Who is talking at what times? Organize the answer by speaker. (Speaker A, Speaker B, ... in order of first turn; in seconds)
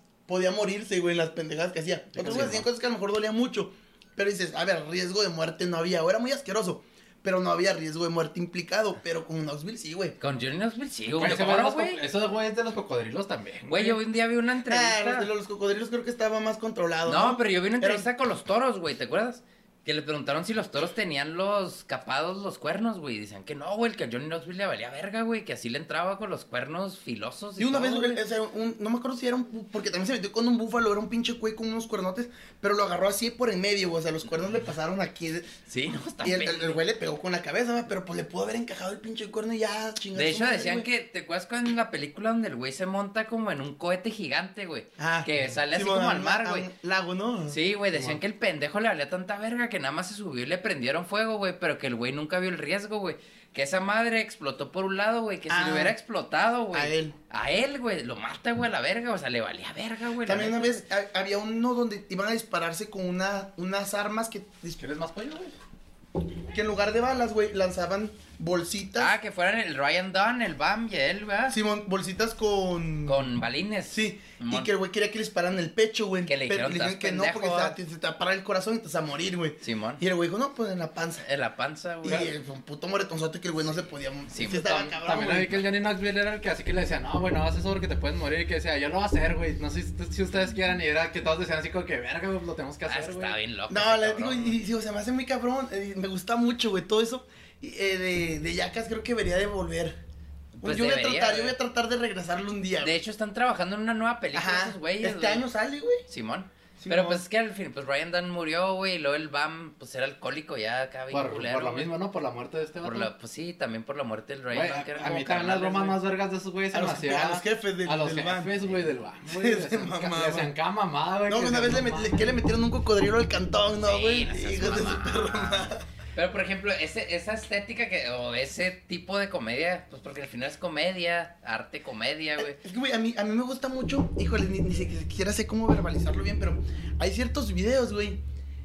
Speaker A: 0.3-10.2, 14.7-18.1, 27.6-35.5, 36.2-40.9, 45.0-47.6, 55.5-56.0, 56.7-57.1, 60.2-64.8, 66.5-69.1, 71.5-73.3, 73.9-81.2, 82.0-85.6, 93.7-100.0, 100.6-103.0, 104.3-106.0, 106.8-107.2, 116.7-118.6, 119.3-120.5, 121.3-125.8, 132.4-138.2
Speaker B: 2.2-2.6, 11.2-14.0, 64.8-65.5, 85.0-93.4, 111.1-113.1, 114.5-122.2
Speaker C: 2.2-2.6, 10.2-12.0, 13.7-15.3, 17.1-28.2, 35.7-36.8, 40.1-46.7, 47.5-60.8, 69.0-71.6, 73.0-74.7, 76.2-77.8, 79.6-80.0, 81.2-82.3, 84.3-85.0, 92.8-94.6, 100.6-101.5, 102.8-105.4, 106.1-111.9, 112.8-116.0, 123.8-132.6